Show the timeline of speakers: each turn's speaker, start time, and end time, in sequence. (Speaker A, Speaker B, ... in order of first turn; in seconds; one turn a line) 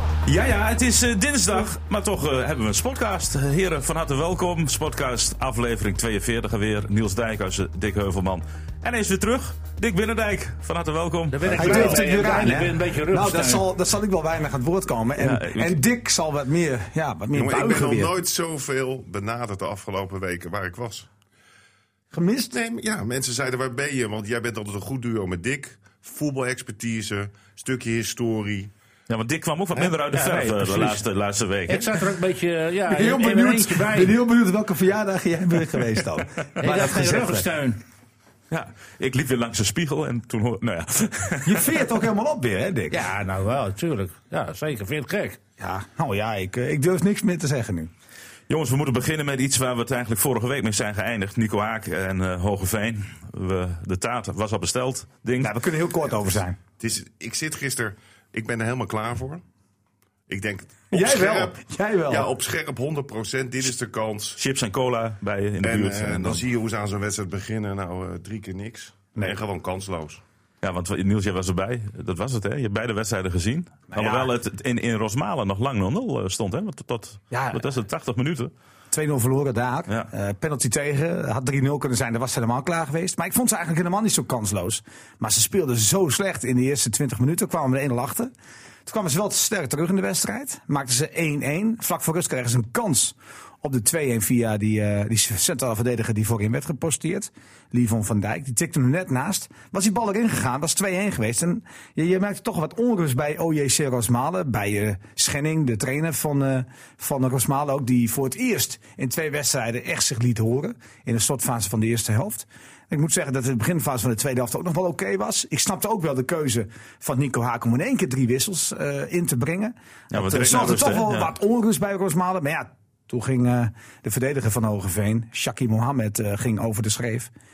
Speaker A: 0.2-11.6
Speaker B: 11.3-13.7
Speaker C: 11.4-12.1
Speaker D: 11.6-18.1
Speaker A: 15.2-15.8
Speaker C: 17.3-21.1
Speaker D: 22.1-22.5
Speaker C: 22.5-28.7
Speaker A: 29.1-32.0
Speaker B: 30.1-31.0
Speaker B: 31.7-34.2
Speaker D: 32.9-37.5
Speaker B: 36.6-37.8
Speaker A: 38.5-41.9
Speaker D: 41.4-43.1
Speaker B: 42.9-45.4
Speaker D: 45.6-47.9
Speaker A: 48.5-55.5
Speaker D: 55.4-56.6
Speaker C: 56.8-59.4
Speaker C: 60.3-64.4
Speaker D: 60.9-62.3
Speaker A: 64.4-66.4
Speaker C: 65.6-70.2
Speaker A: 70.6-78.5
Speaker D: 73.9-74.3
Speaker D: 77.3-77.6
Speaker D: 78.9-88.3
Speaker D: 88.8-127.3
Speaker A: 120.1-121.3